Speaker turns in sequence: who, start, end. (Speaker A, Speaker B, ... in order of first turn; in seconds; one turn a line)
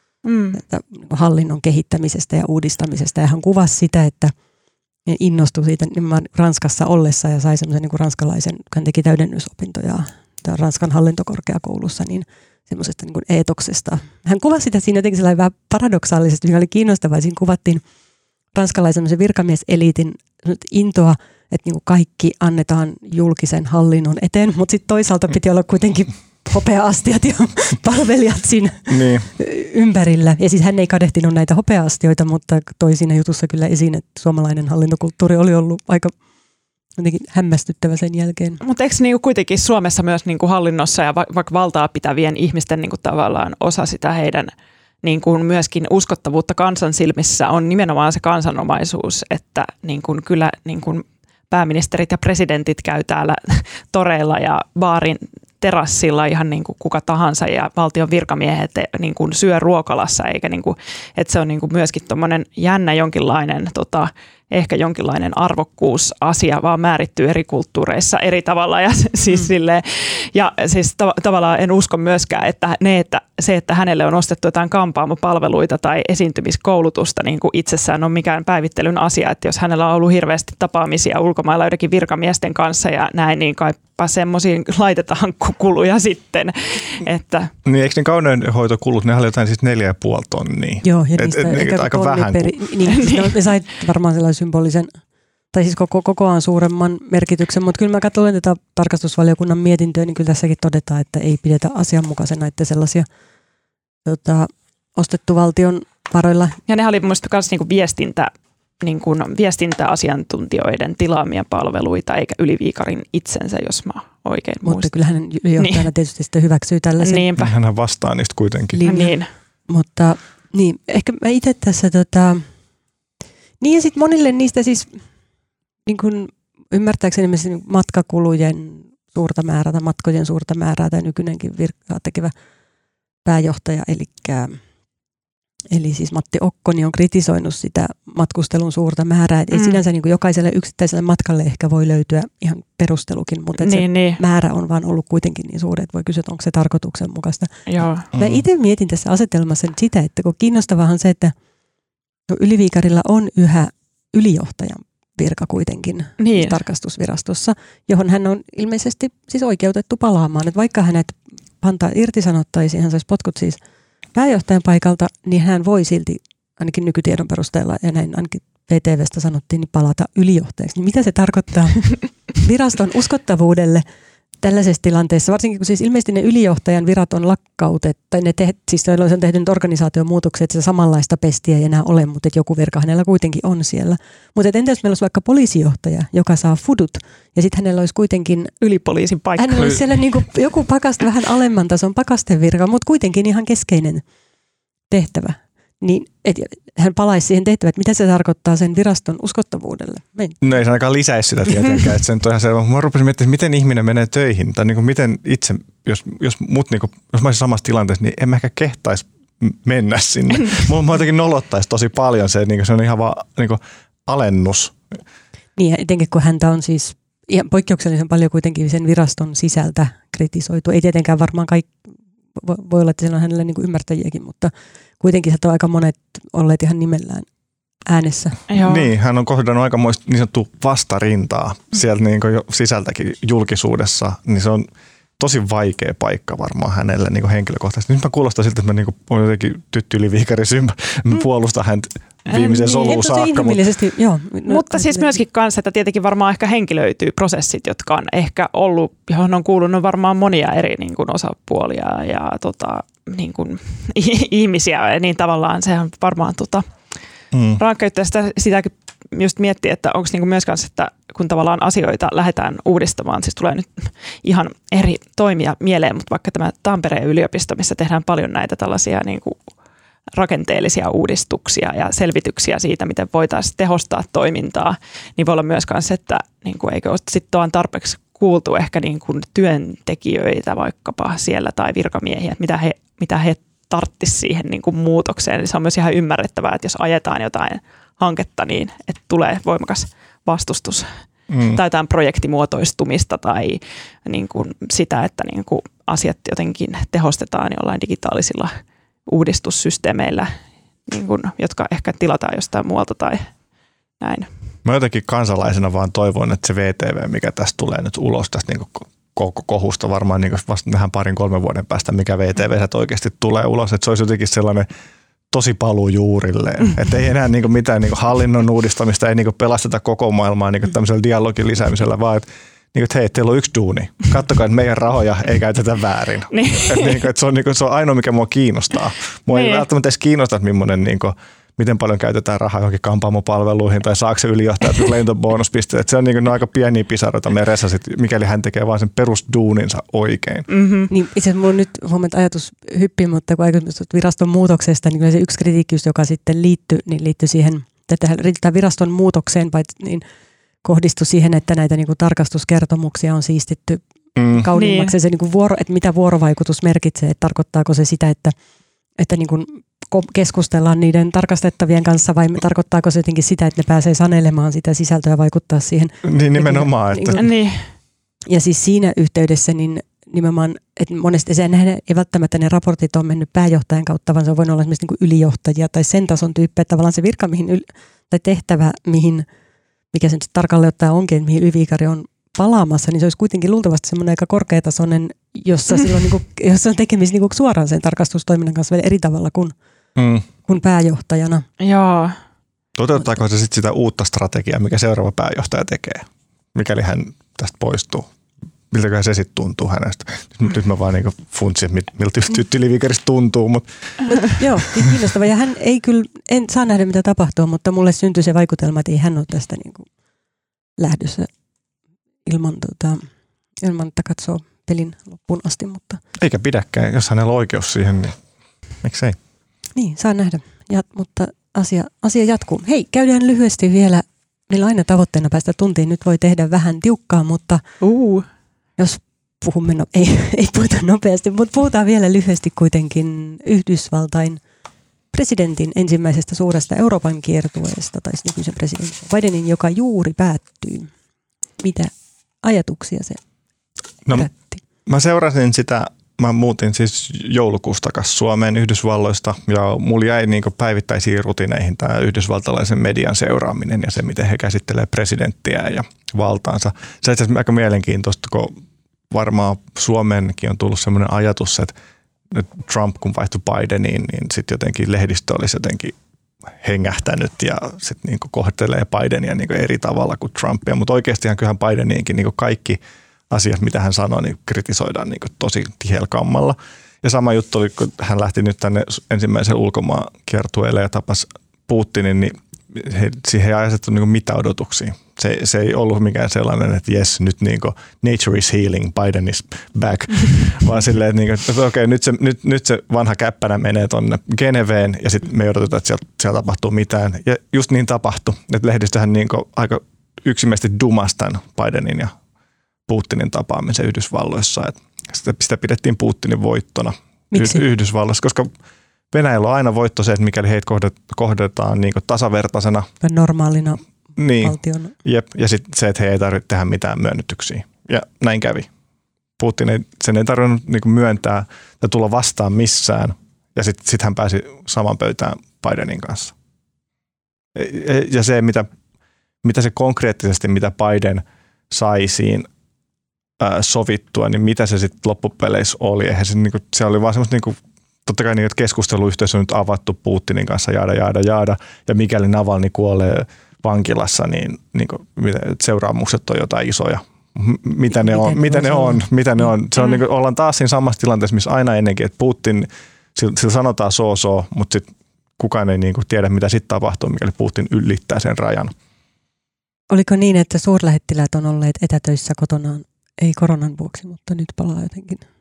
Speaker A: 0.2-0.6
Speaker B: 0.5-4.3
Speaker B: 5.1-17.8
Speaker B: 18.5-36.1
Speaker C: 28.9-29.3
Speaker B: 37.0-38.6
Speaker A: 38.6-44.5
Speaker A: 45.0-87.5
Speaker C: 87.6-92.6
Speaker B: 90.8-94.9
Speaker A: 92.9-93.4
Speaker B: 95.5-103.0
Speaker B: 104.0-106.6
Speaker A: 106.7-114.9
Speaker B: 114.6-117.2
Speaker A: 115.6-115.9
Speaker A: 117.0-117.5
Speaker C: 117.3-118.8
Speaker B: 118.7-122.5
Speaker A: 118.8-119.3
Speaker B: 123.6-125.0
Speaker B: 125.8-132.3
Speaker B: 133.2-134.6
Speaker B: 135.7-147.5
Speaker A: 139.5-139.8
Speaker A: 143.6-144.2
Speaker A: 147.7-148.1
Speaker C: 148.1-148.4
Speaker B: 148.1-151.3
Speaker B: 152.3-163.6
Speaker A: 156.2-156.6
Speaker B: 164.1-173.8
Speaker B: 174.4-188.5
Speaker A: 188.6-189.8
Speaker B: 189.4-194.0
Speaker B: 194.9-200.4
Speaker C: 200.4-214.8
Speaker B: 215.6-221.7
Speaker B: 222.3-227.3
Speaker B: 227.8-228.4
Speaker A: 228.5-228.9
Speaker C: 228.6-234.7
Speaker C: 235.2-243.6
Speaker A: 242.3-243.0
Speaker B: 242.8-245.2
Speaker A: 244.5-256.6
Speaker C: 257.3-257.6
Speaker A: 257.6-269.4
Speaker A: 270.1-290.9
Speaker C: 291.3-291.6
Speaker A: 291.5-298.5
Speaker A: 299.1-300.3
Speaker A: 300.9-303.3
Speaker A: 304.0-304.3
Speaker C: 304.6-314.7
Speaker C: 315.3-340.5
Speaker A: 326.3-327.0
Speaker A: 329.3-329.6
Speaker A: 340.5-340.9
Speaker B: 340.9-350.0
Speaker B: 350.6-358.3
Speaker C: 354.1-354.4
Speaker A: 354.5-354.9
Speaker B: 359.0-367.2
Speaker C: 366.0-367.2
Speaker A: 367.2-367.7
Speaker B: 368.3-379.2
Speaker B: 379.9-389.5
Speaker C: 389.9-390.2
Speaker B: 390.4-391.4
Speaker A: 391.6-392.2
Speaker C: 392.8-398.1
Speaker C: 398.7-404.0
Speaker B: 404.1-409.9
Speaker B: 410.8-411.3
Speaker B: 412.2-413.1
Speaker B: 413.6-416.0
Speaker C: 416.1-418.2
Speaker C: 418.8-419.2
Speaker B: 419.8-427.6
Speaker A: 427.8-428.3
Speaker B: 428.8-434.4
Speaker B: 435.1-440.9
Speaker B: 441.6-443.2
Speaker B: 444.1-444.6
Speaker C: 444.9-458.5
Speaker C: 459.1-461.7
Speaker C: 462.3-465.9
Speaker C: 466.6-502.1
Speaker C: 502.9-508.5
Speaker B: 507.3-507.6
Speaker C: 509.1-512.9
Speaker B: 513.0-513.8
Speaker C: 514.1-518.7
Speaker B: 514.4-514.9
Speaker C: 519.4-526.3
Speaker C: 527.5-528.7
Speaker C: 529.4-532.5
Speaker C: 533.4-554.9
Speaker B: 547.9-549.0
Speaker C: 555.4-558.7
Speaker B: 559.9-565.2